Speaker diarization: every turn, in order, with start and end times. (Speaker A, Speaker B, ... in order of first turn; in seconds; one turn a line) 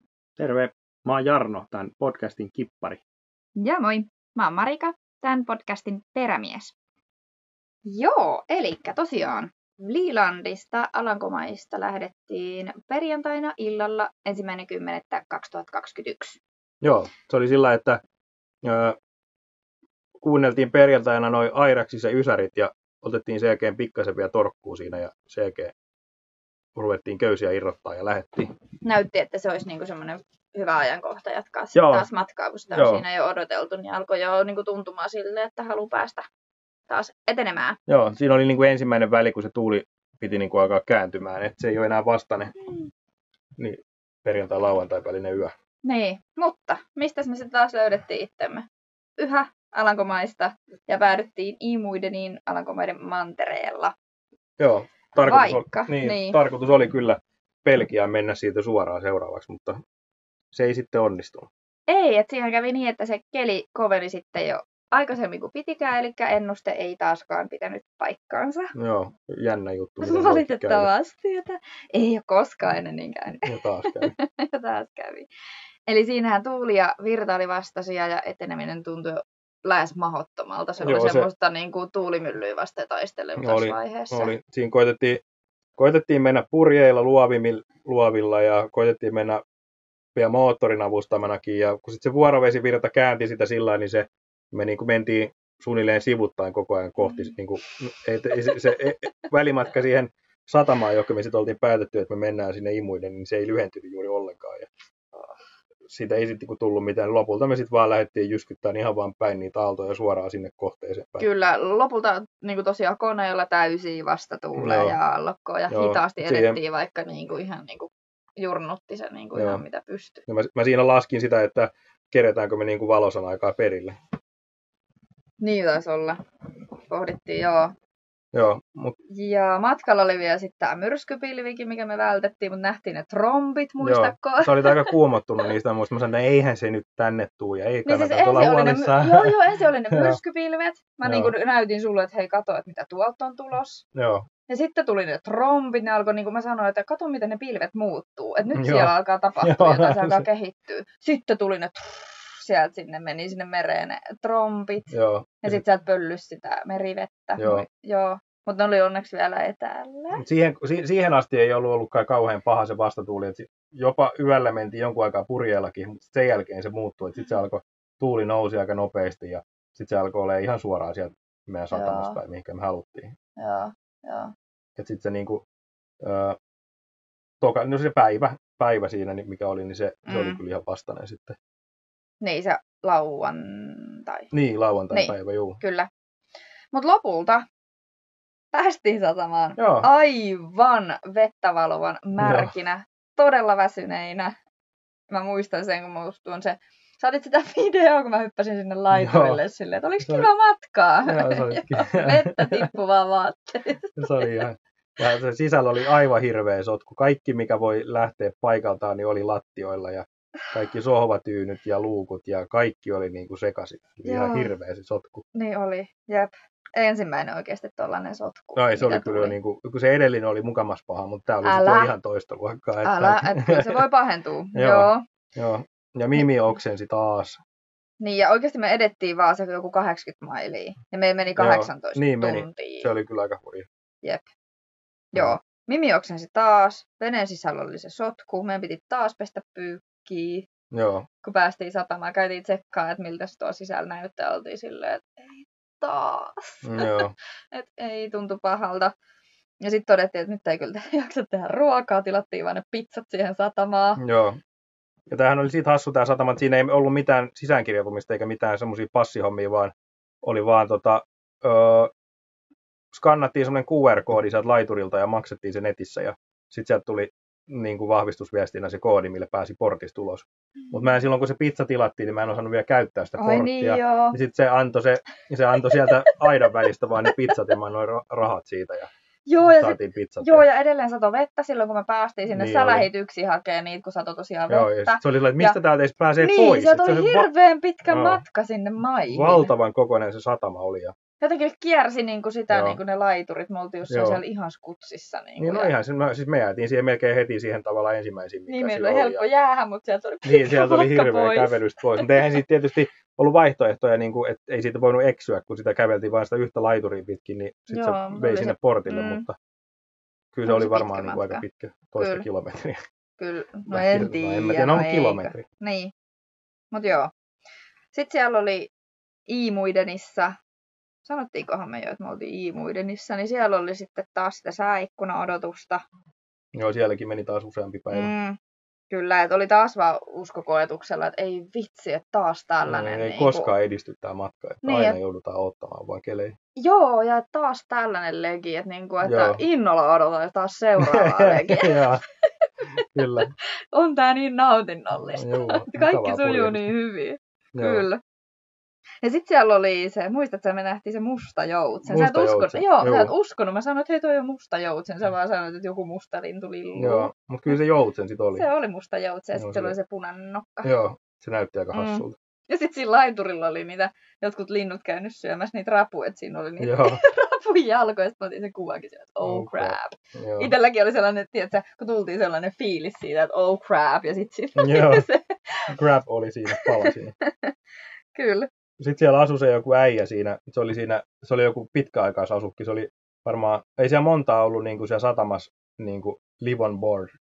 Speaker A: 0.4-3.0
Speaker B: 3.6-6.7
Speaker B: 7.8-16.4
Speaker C: 16.8-18.0
Speaker C: 18.6-19.0
Speaker C: 20.2-25.7
Speaker C: 26.7-28.5
Speaker B: 28.8-36.2
Speaker C: 31.7-32.1
Speaker C: 32.7-33.0
Speaker B: 36.9-37.8
Speaker C: 37.9-42.5
Speaker C: 43.6-45.5
Speaker B: 45.8-48.7
Speaker B: 49.2-53.9
Speaker C: 54.6-59.8
Speaker B: 55.2-56.4
Speaker C: 60.5-61.5
Speaker B: 61.9-68.7
Speaker C: 68.7-70.9
Speaker B: 70.0-75.3
Speaker C: 73.4-74.1
Speaker B: 75.9-84.3
Speaker C: 80.8-81.3
Speaker C: 83.4-85.2
Speaker C: 85.8-89.4
Speaker C: 90.1-104.7
Speaker C: 105.9-111.3
Speaker B: 111.2-120.2
Speaker C: 114.5-115.0
Speaker C: 115.7-116.6
Speaker C: 119.3-119.6
Speaker C: 120.3-124.0
Speaker B: 125.4-126.2
Speaker B: 126.9-127.7
Speaker C: 128.3-128.9
Speaker B: 129.1-134.9
Speaker C: 133.8-140.2
Speaker B: 137.8-143.8
Speaker C: 141.0-141.3
Speaker C: 143.9-144.2
Speaker B: 144.5-154.9
Speaker C: 148.5-150.2
Speaker C: 154.9-155.6
Speaker B: 155.4-160.2
Speaker C: 157.4-157.7
Speaker C: 160.1-173.1
Speaker B: 171.7-172.2
Speaker B: 173.4-174.3
Speaker C: 174.8-175.4
Speaker C: 176.0-176.4
Speaker C: 177.4-181.4
Speaker B: 180.1-180.4
Speaker B: 182.2-184.3
Speaker C: 184.3-185.6
Speaker B: 184.9-185.9
Speaker B: 186.7-187.4
Speaker B: 188.5-194.3
Speaker C: 189.6-189.9
Speaker C: 192.2-192.5
Speaker B: 195.1-204.3
Speaker C: 198.9-199.4
Speaker C: 201.0-202.7
Speaker C: 203.9-215.2
Speaker B: 214.0-214.5
Speaker B: 215.3-219.3
Speaker C: 218.6-223.8
Speaker B: 221.4-221.9
Speaker B: 222.8-225.0
Speaker C: 224.5-227.4
Speaker B: 228.0-232.9
Speaker C: 231.4-233.7
Speaker B: 234.0-234.3
Speaker B: 235.1-240.5
Speaker C: 240.7-241.1
Speaker B: 241.2-248.9
Speaker C: 246.6-247.1
Speaker B: 249.6-254.0
Speaker C: 254.0-254.4
Speaker C: 255.1-261.9
Speaker C: 262.9-280.4
Speaker B: 273.2-274.2
Speaker B: 276.2-276.5
Speaker B: 279.3-285.6
Speaker C: 282.3-282.9
Speaker C: 284.5-287.3
Speaker B: 286.2-289.5
Speaker C: 287.9-288.2
Speaker C: 289.1-290.9
Speaker B: 291.2-295.7
Speaker C: 292.5-292.8
Speaker C: 293.9-294.2
Speaker C: 295.4-299.2
Speaker B: 298.5-302.2
Speaker C: 300.2-309.4
Speaker B: 307.7-309.3
Speaker C: 310.3-312.8
Speaker B: 310.4-311.4
Speaker B: 312.0-312.2
Speaker B: 313.2-315.9
Speaker C: 313.7-315.4
Speaker B: 316.7-317.1
Speaker B: 317.9-318.7
Speaker B: 319.3-320.4
Speaker B: 321.0-325.8
Speaker C: 326.5-328.1
Speaker B: 327.9-328.4
Speaker B: 328.9-333.5
Speaker C: 332.7-336.3
Speaker B: 334.6-335.0
Speaker B: 336.6-341.8
Speaker C: 339.0-339.4
Speaker C: 340.8-342.0
Speaker C: 342.9-343.3
Speaker B: 343.7-348.0
Speaker C: 345.1-346.7
Speaker C: 347.5-347.9
Speaker B: 349.0-357.6
Speaker C: 351.9-353.1
Speaker C: 356.8-358.5
Speaker B: 358.3-360.7
Speaker C: 359.3-359.7
Speaker C: 360.6-362.1
Speaker B: 361.7-375.6
Speaker C: 366.6-367.0
Speaker C: 369.2-370.5
Speaker C: 374.6-375.0
Speaker C: 375.7-377.1
Speaker B: 376.5-377.5
Speaker B: 378.1-378.5
Speaker C: 378.8-387.1